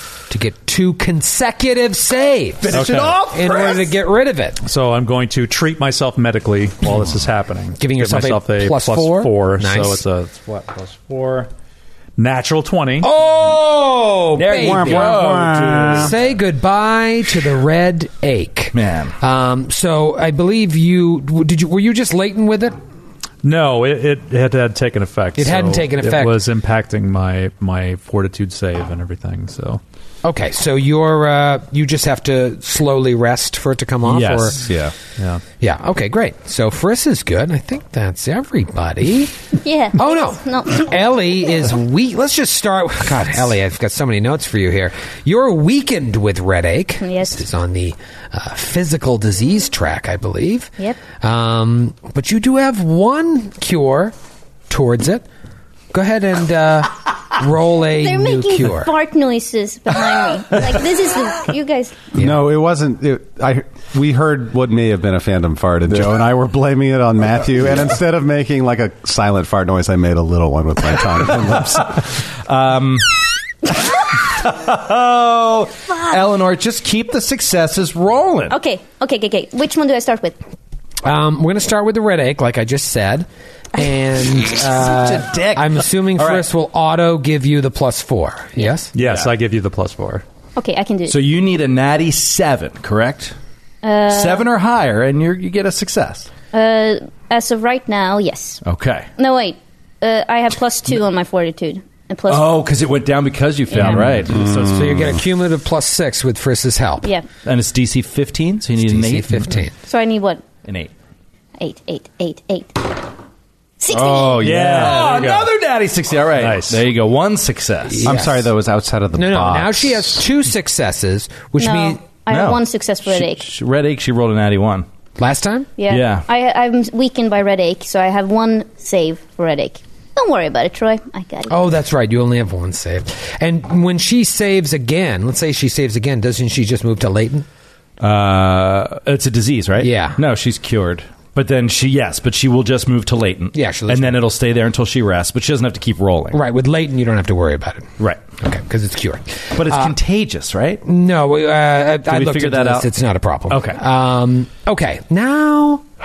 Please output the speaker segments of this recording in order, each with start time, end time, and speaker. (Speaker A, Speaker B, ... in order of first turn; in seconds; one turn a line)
Speaker A: 0.3-4.6
Speaker B: 2.6-3.9
Speaker C: 2.7-3.2
Speaker C: 4.6-11.5
Speaker A: 7.8-10.0
Speaker C: 12.2-13.1
Speaker A: 13.0-15.2
Speaker B: 14.3-16.1
Speaker D: 14.6-16.1
Speaker A: 15.9-22.8
Speaker B: 18.7-19.1
Speaker C: 23.4-29.8
Speaker A: 25.4-26.4
Speaker A: 30.2-34.6
Speaker B: 34.0-34.9
Speaker C: 35.2-35.4
Speaker A: 35.6-39.4
Speaker E: 39.6-41.0
Speaker A: 40.0-54.1
Speaker E: 47.0-47.4
Speaker A: 54.7-55.2
Speaker A: 55.9-58.9
Speaker E: 58.0-62.1
Speaker D: 62.1-72.0
Speaker B: 71.6-78.6
Speaker E: 78.5-80.4
Speaker A: 81.0-88.9
Speaker B: 84.5-86.5
Speaker C: 88.9-90.2
Speaker B: 89.0-89.3
Speaker E: 90.5-91.2
Speaker B: 91.1-93.4
Speaker E: 93.8-94.5
Speaker B: 94.1-96.3
Speaker E: 96.5-98.6
Speaker B: 98.6-99.1
Speaker E: 99.2-102.5
Speaker B: 102.3-104.4
Speaker E: 103.7-104.1
Speaker D: 104.2-105.2
Speaker A: 104.4-107.1
Speaker B: 107.4-109.6
Speaker A: 108.8-109.7
Speaker E: 109.8-110.4
Speaker B: 110.6-110.9
Speaker E: 111.6-113.0
Speaker E: 113.8-114.5
Speaker B: 113.9-118.1
Speaker C: 114.4-115.5
Speaker C: 116.4-116.8
Speaker A: 117.9-118.5
Speaker D: 118.0-120.2
Speaker A: 119.1-122.0
Speaker E: 121.6-123.5
Speaker B: 122.3-124.9
Speaker A: 125.2-125.7
Speaker E: 125.8-131.7
Speaker B: 125.9-126.2
Speaker A: 131.5-137.4
Speaker B: 138.0-146.4
Speaker A: 139.8-140.2
Speaker A: 143.5-144.2
Speaker A: 146.3-149.9
Speaker B: 149.5-150.8
Speaker A: 150.8-155.9
Speaker B: 152.1-152.9
Speaker B: 153.5-153.8